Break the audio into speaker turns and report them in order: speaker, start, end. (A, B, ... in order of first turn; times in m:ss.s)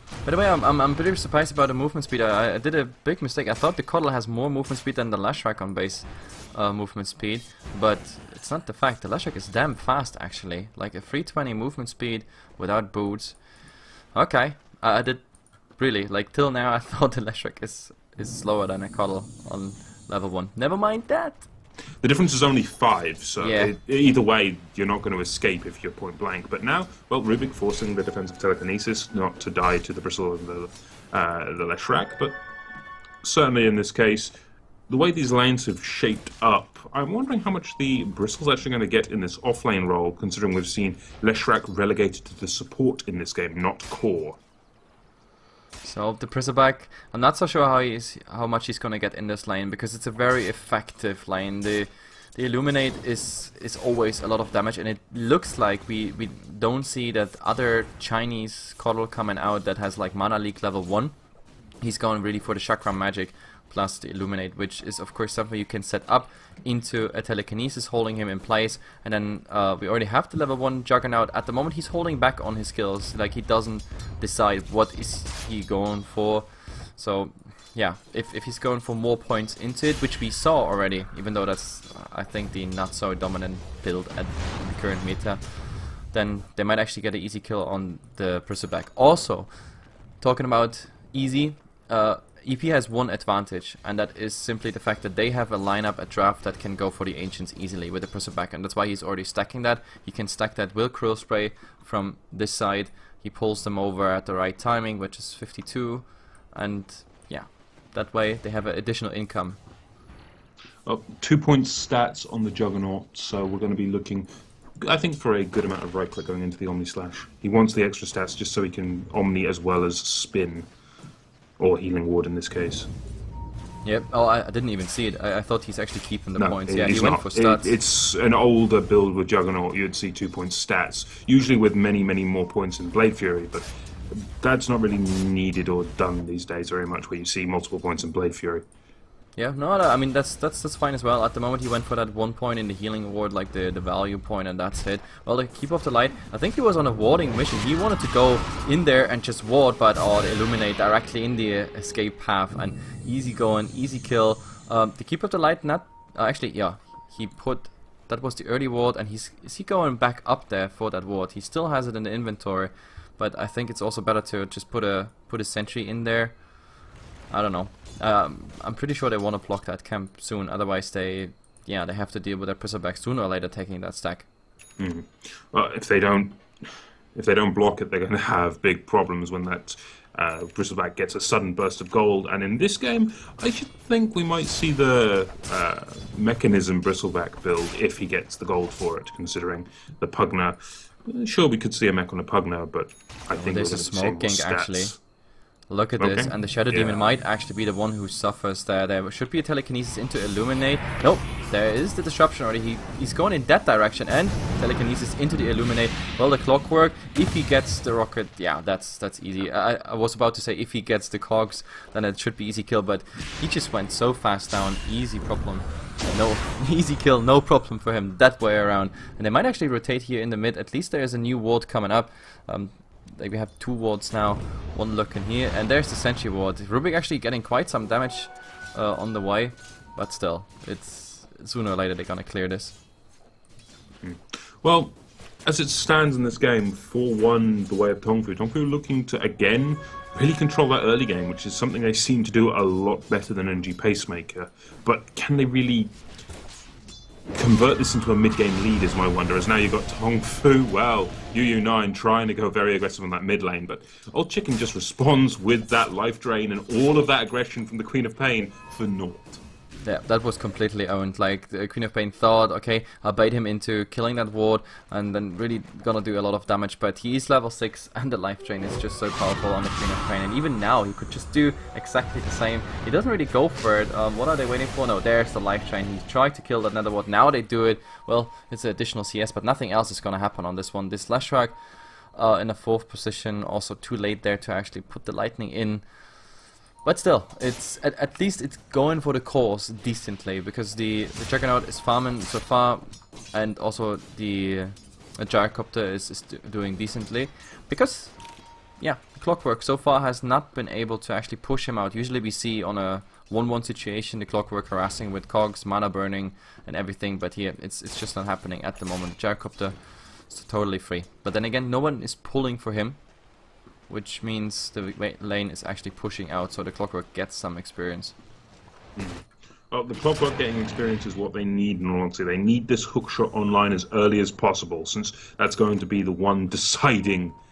0:00.3-0:13.4 A
0:14.2-0:15.2 A
0:15.8-0:21.5 A
0:22.0-0:32.4 B
0:23.4-0:23.7 A
0:33.2-0:34.3 B
0:34.9-0:44.4 B
0:45.8-1:01.1 A
1:01.8-1:25.4 A
1:26.1-1:29.5 A
1:30.2-1:49.6 A
1:50.9-1:54.3 B
1:54.8-2:00.7 B
2:01.6-2:02.9 B
2:03.8-2:07.7 A
2:06.4-2:18.7 B
2:19.4-2:46.4 A
2:47.3-2:54.3 A
2:54.8-2:56.4 B
2:57.1-3:15.0 B
3:13.3-3:14.9 A
3:15.7-3:52.8 A
3:16.0-3:17.0 B
3:54.0-4:05.9 B
4:07.3-4:19.4 B
4:19.8-4:41.6 A
4:42.2-4:45.8 A
4:46.8-4:52.8 A
4:53.3-4:58.1 A
4:58.8-5:09.8 A
5:10.3-5:13.0 A
5:13.9-5:18.2 A
5:19.0-5:27.4 B